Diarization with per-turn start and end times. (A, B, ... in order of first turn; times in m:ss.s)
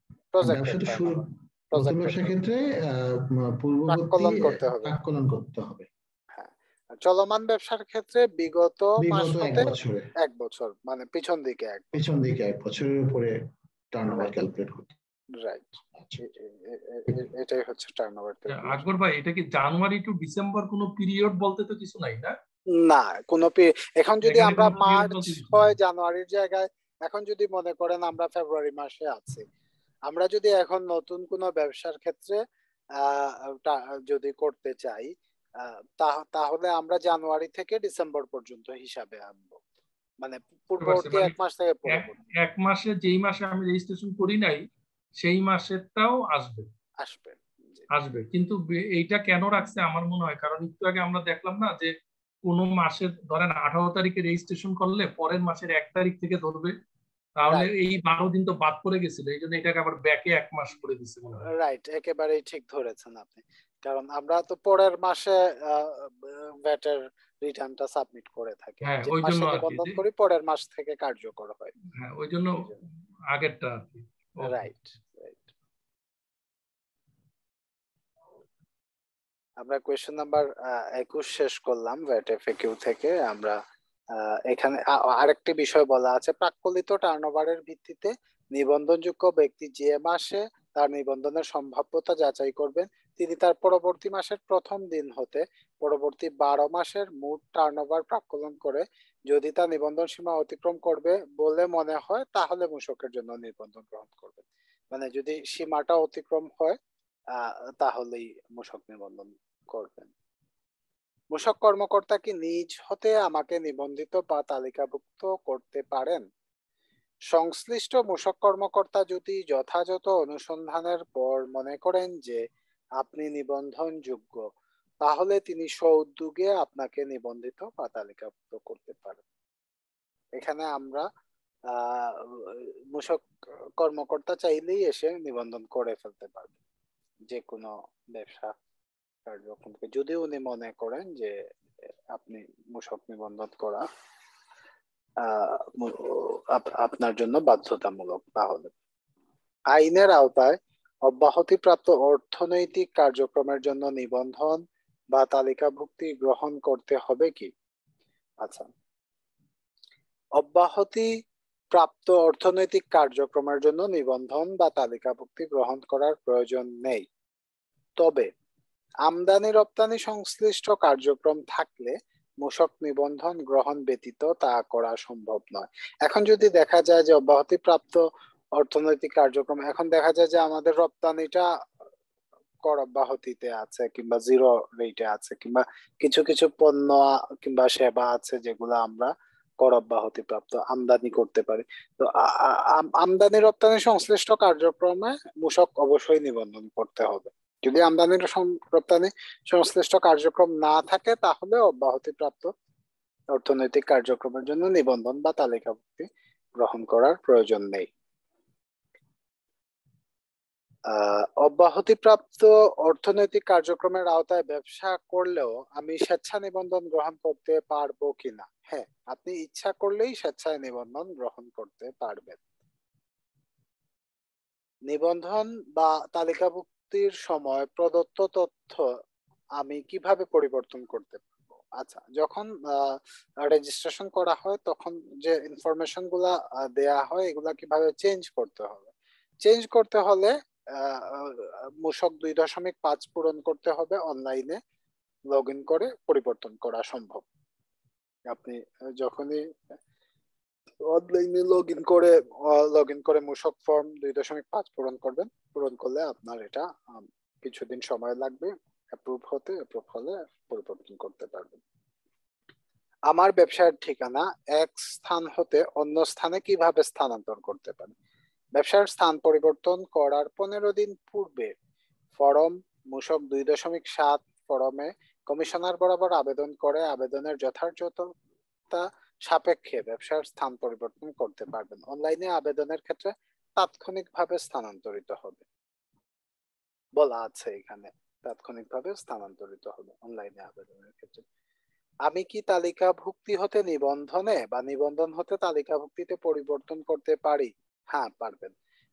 0:00.3-0:02.3 A
0:00.4-0:05.9 B
0:03.9-0:05.0 A
0:06.3-0:12.0 A
0:09.0-0:10.1 B
0:11.9-0:13.4 B
0:13.9-0:14.9 B
0:15.4-0:18.8 A
0:18.5-0:22.4 C
0:22.8-0:29.4 A
0:24.2-0:25.8 C
0:30.1-0:32.4 A
0:33.0-0:39.6 A
0:40.2-0:42.2 A
0:40.8-0:41.4 C
0:41.9-0:44.6 C
0:45.2-0:46.7 C
0:47.0-0:47.9 A
0:47.9-0:51.9 C
0:52.4-0:56.8 C
0:57.4-1:01.4 C
0:57.4-0:57.7 A
1:01.4-1:11.8 A
1:08.8-1:10.0 C
1:12.0-1:12.7 C
1:13.3-1:14.7 C
1:14.4-1:15.4 A
1:19.6-1:23.6 A
1:24.2-1:46.8 A
1:47.3-1:50.1 A
1:51.3-1:56.2 A
1:57.3-2:02.4 A
2:03.0-2:04.4 A
2:05.0-2:09.2 A
2:10.4-2:11.1 A
2:11.7-2:13.2 A
2:13.8-2:16.5 A
2:17.3-2:18.5 A
2:19.3-2:21.4 A
2:22.1-2:23.9 A
2:25.2-2:28.7 A
2:29.7-2:34.6 A
2:35.1-2:37.5 A
2:38.4-2:38.7 A
2:40.4-2:41.1 A
2:41.7-2:47.0 A
2:48.0-2:48.3 A
2:49.0-2:58.0 A
2:58.6-3:01.5 A
3:02.6-3:22.5 A
3:23.3-3:27.9 A
3:30.9-3:42.4 A
3:44.9-3:48.9 A
3:49.6-3:51.2 A
3:51.8-3:58.9 A
3:59.4-4:04.6 A
4:05.3-4:07.2 A
4:08.3-4:09.5 A
4:10.8-4:21.6 A
4:23.1-4:27.9 A
4:28.6-4:31.5 A
4:32.2-4:38.1 A
4:38.7-4:45.4 A
4:47.0-4:51.2 A
4:52.1-4:58.5 A